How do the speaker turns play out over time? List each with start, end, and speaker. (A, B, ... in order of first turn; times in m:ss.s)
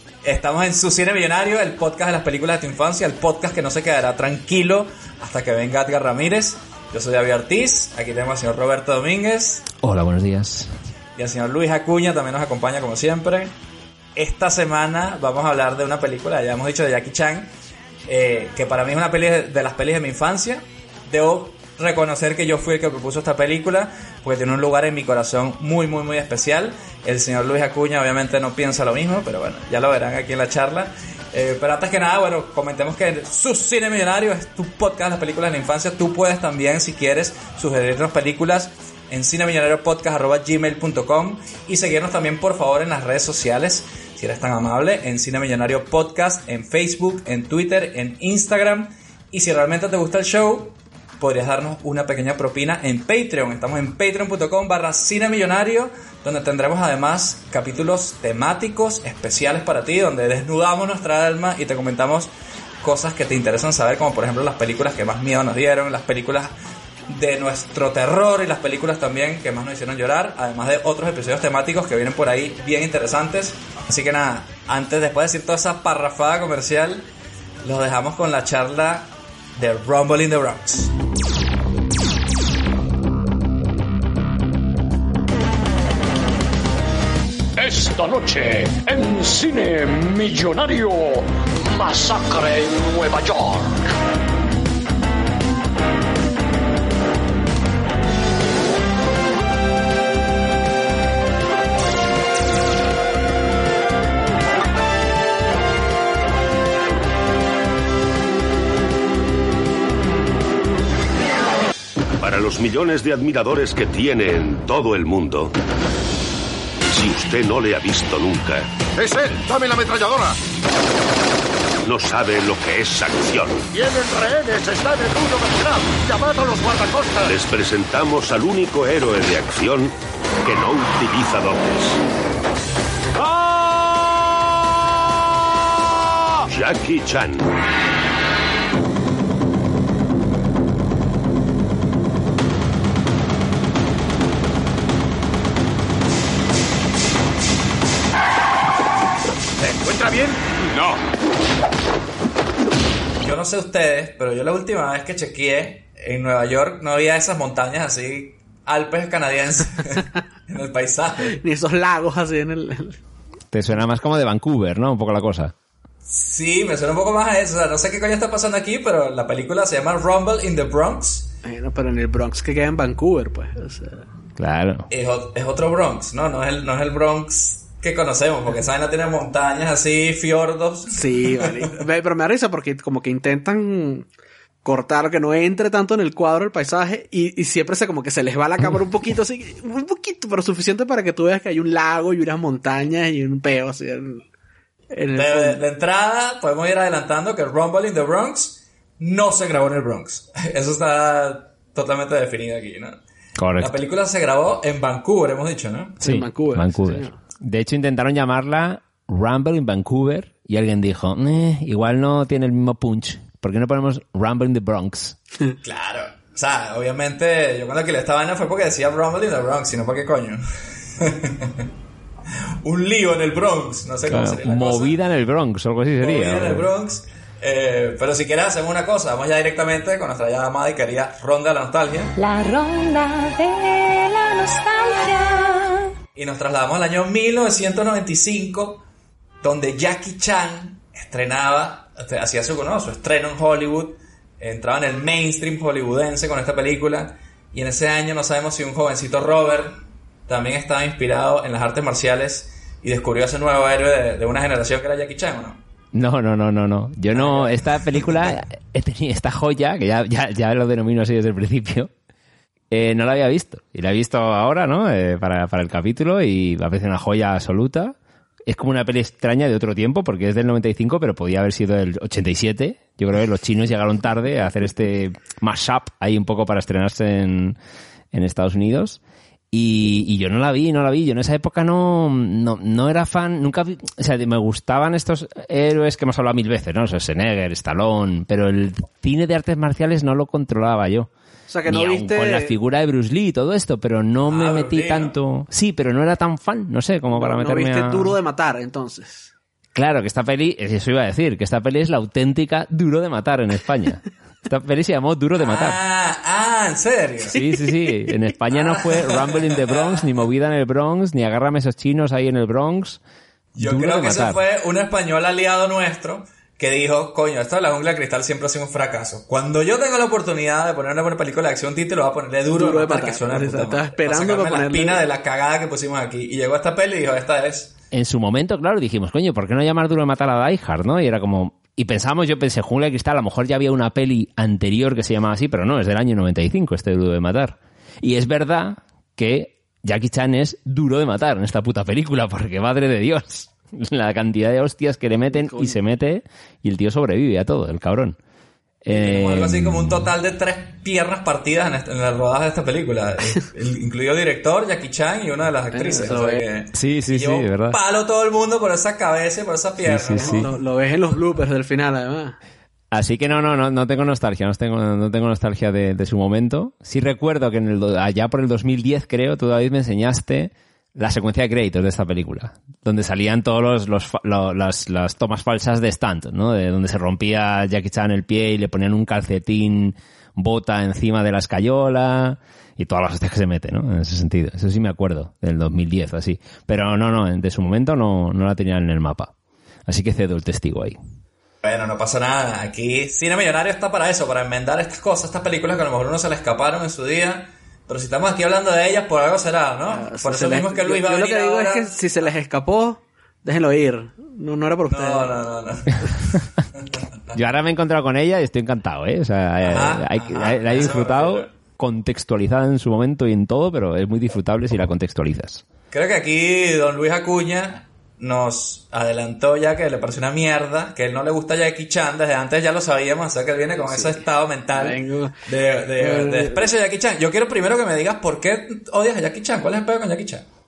0:00.2-0:09.7 A
0:09.8-0:10.7 B
0:11.2-0:13.5 A
0:14.2-0:17.5 A
0:18.1-1:02.3 A
1:02.8-1:06.5 A
1:07.1-1:17.0 A
1:17.6-1:20.9 A
1:27.6-1:33.8 C
1:52.2-1:55.5 D
1:56.9-1:58.7 D
1:59.0-2:00.4 E
2:01.8-2:03.6 D
2:03.7-2:07.3 E
2:07.2-2:09.9 D
2:10.4-2:12.0 D
2:16.5-2:17.5 D
2:29.6-2:31.0 E
2:33.2-2:41.4 A
2:41.3-2:43.0 F
2:43.5-2:45.5 B
2:46.0-2:51.3 A
2:51.4-2:54.0 F
2:54.4-2:54.9 B
2:54.9-3:01.7 A
3:00.9-3:04.1 F
3:04.6-3:14.2 F
3:14.9-3:15.6 F
3:15.1-3:23.0 A
3:23.4-3:23.8 B
3:23.6-3:26.0 A
3:26.0-3:27.1 F
3:26.0-3:35.2 B
3:35.6-3:40.4 A
3:41.0-3:41.6 A
3:42.6-3:45.0 A
3:44.1-3:46.7 B
3:46.0-3:52.1 A
3:52.2-3:55.9 G
3:56.1-3:58.8 A
3:59.4-4:09.7 A
4:10.3-4:15.6 A
4:15.9-4:21.9 B
4:17.1-4:18.4 A
4:22.7-4:37.6 B
4:38.1-4:39.0 B
4:39.5-4:51.1 B
4:51.5-4:52.5 F
4:51.6-4:58.2 B
4:54.3-4:55.1 A
4:57.1-4:59.3 F
4:59.7-5:05.8 B
5:05.4-5:07.4 A
5:07.3-5:13.0 B
5:07.3-5:07.7 F
5:08.5-5:10.2 A
5:13.5-5:27.7 A
5:13.6-5:14.4 B
5:22.5-5:25.0 F
5:27.9-5:48.2 B
5:45.3-5:45.8 F
5:48.8-5:49.9 B
5:48.9-6:00.5 A
5:55.7-5:56.4 F
5:56.7-5:57.8 B
5:59.8-6:00.5 B
6:00.2-6:02.4 F
6:02.9-6:29.3 B
6:29.9-6:31.0 B
6:31.6-6:42.0 A
6:39.9-6:45.3 F
6:44.9-6:46.4 A
6:47.3-6:55.6 B
6:49.6-6:51.5 A
6:55.9-7:10.4 A
7:03.8-7:05.4 F
7:06.0-7:06.6 F